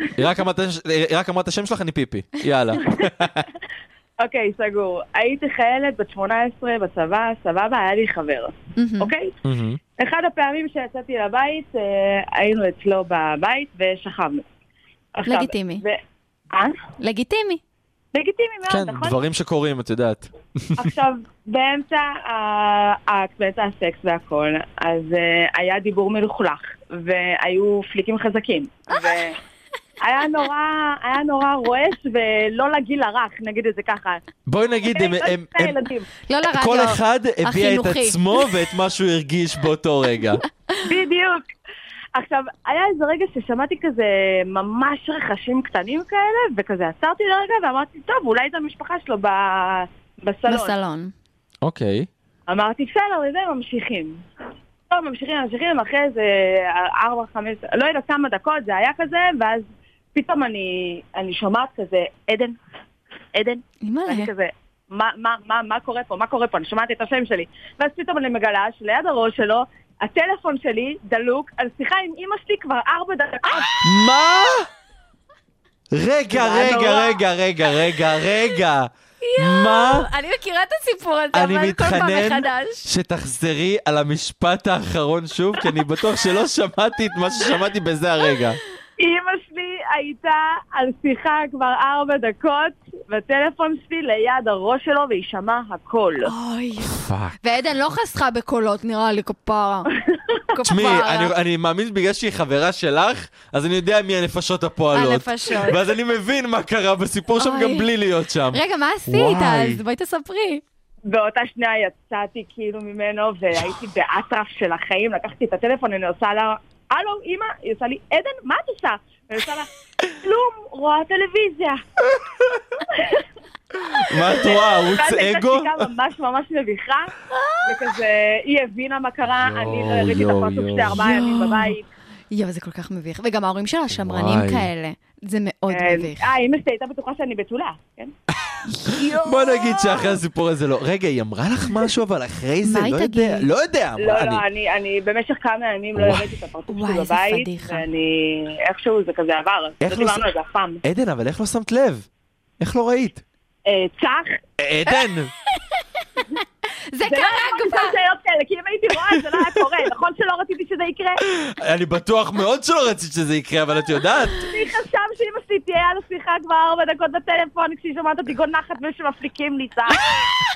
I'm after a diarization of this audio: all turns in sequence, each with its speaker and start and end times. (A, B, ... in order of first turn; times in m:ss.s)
0:00.2-0:03.5 A
0:04.2-0:09.3 B
0:08.8-0:09.1 C
0:09.4-0:09.8 A
0:10.0-0:14.4 B
0:15.1-0:16.0 B
0:15.3-0:15.8 C
0:16.5-0:16.8 B
0:17.0-0:17.6 C
0:18.1-0:19.2 B
0:18.7-0:20.9 A
0:20.8-0:29.4 B
0:30.0-0:34.2 B
0:34.5-0:35.8 A
0:34.9-0:36.1 B
0:36.3-0:38.5 C
0:36.5-0:40.4 A
0:40.8-0:41.4 B
0:42.1-0:50.8 B
0:50.5-0:51.1 C
0:51.6-0:52.1 A
0:52.5-0:54.2 B
0:54.9-1:02.6 B
1:03.4-1:13.8 B
1:03.8-1:04.3 C
1:13.8-1:14.7 A
1:15.9-1:20.1 A
1:16.3-1:17.2 B
1:19.2-1:22.9 C
1:21.3-1:28.6 A
1:29.0-1:36.3 B
1:36.2-1:39.9 C
1:36.9-1:37.4 A
1:40.5-1:41.3 C
1:40.7-1:49.8 A
1:44.9-1:45.8 C
1:47.4-1:47.9 C
1:48.5-1:50.6 C
1:51.1-2:01.8 B
2:02.9-2:03.2 B
2:04.0-2:05.9 A
2:04.2-2:07.1 B
2:07.4-2:07.9 C
2:07.6-2:11.9 B
2:09.4-2:11.0 A
2:11.0-2:11.8 C
2:12.3-2:16.3 C
2:13.9-2:14.7 A
2:15.7-2:18.1 B
2:18.5-2:24.4 A
2:18.9-2:20.1 B
2:22.6-2:23.5 C
2:24.0-2:30.8 B
2:26.0-2:26.3 A
2:26.7-2:27.8 C
2:29.8-2:30.2 A
2:30.8-2:32.1 A
2:32.6-2:33.2 A
2:33.7-2:34.4 B
2:34.6-2:35.3 A
2:36.1-2:38.0 C
2:37.1-2:41.2 B
2:39.2-2:39.5 A
2:41.4-2:44.5 A
2:44.4-2:50.1 B